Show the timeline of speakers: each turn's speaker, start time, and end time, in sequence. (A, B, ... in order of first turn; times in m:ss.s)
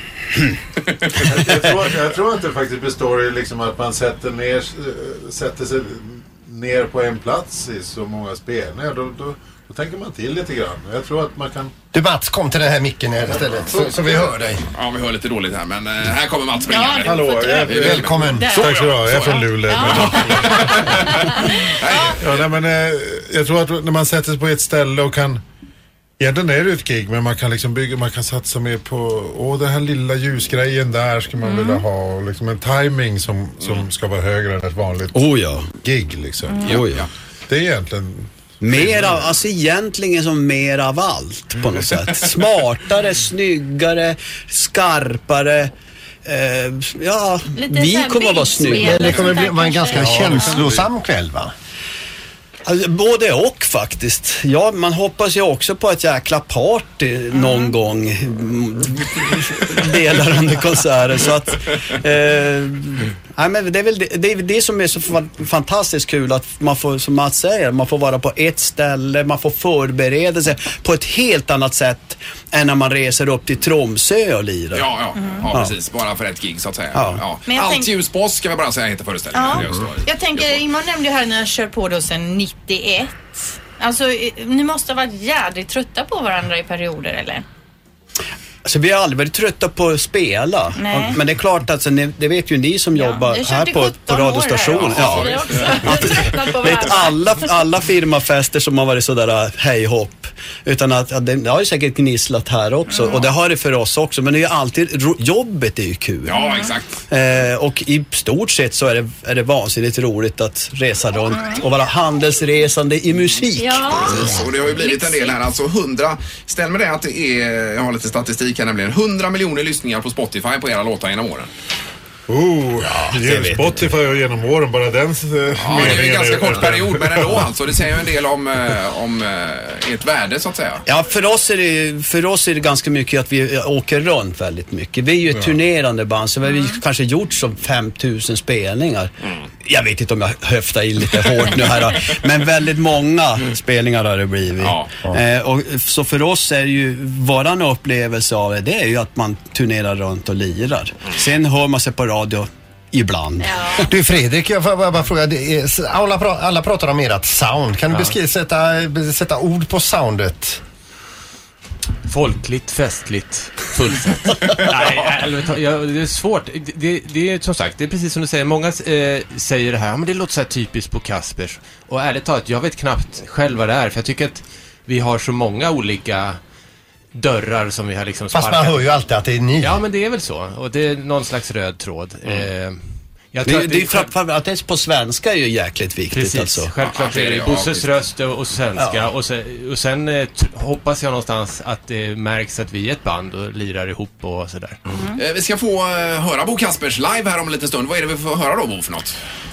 0:01.3-0:11.7 A
0:11.9-0:14.6 B
0:14.7-0:22.4 C
0:16.7-0:22.2 D
0:17.0-0:21.2 A
0:17.7-0:18.6 B
0:22.2-0:25.4 A
0:26.2-0:35.2 A
0:31.4-0:31.8 D
0:35.1-0:35.7 E
0:35.8-0:36.7 A
0:36.5-0:36.8 D
0:36.6-0:37.1 E
0:36.6-0:37.1 C
0:37.5-0:38.3 A
0:38.6-0:45.7 E
0:46.2-0:49.3 E
0:47.5-0:50.6 D
0:48.7-0:51.5 B
0:50.1-0:50.3 E
0:52.6-1:14.9 E
0:57.3-0:57.7 D
1:14.7-1:20.6 C
1:15.2-1:15.4 D
1:16.9-1:17.2 E
1:17.5-1:17.9 D
1:19.3-1:27.4 D
1:28.6-1:46.4 E
1:30.8-1:31.2 D
1:32.9-1:37.5 D
1:34.7-1:36.3 C
1:42.9-1:43.2 D
1:46.2-1:47.0 C
1:46.3-1:46.7 D
1:47.1-1:54.4 E
1:51.3-1:51.6 D
1:53.6-1:55.4 D
1:53.9-2:01.5 C
2:02.3-2:07.5 A
2:02.8-2:03.9 E
2:05.6-2:10.8 C
2:10.8-2:19.1 E
2:16.4-2:16.8 D
2:19.6-2:33.9 E
2:24.6-2:24.9 C
2:33.4-2:33.8 D
2:33.9-2:40.6 B
2:42.0-2:56.4 F
2:57.1-2:58.9 F
2:58.3-2:59.8 B
2:59.6-3:04.1 F
3:03.4-3:06.7 E
3:06.1-3:14.8 F
3:06.8-3:07.9 C
3:08.8-3:09.1 E
3:15.2-3:19.2 C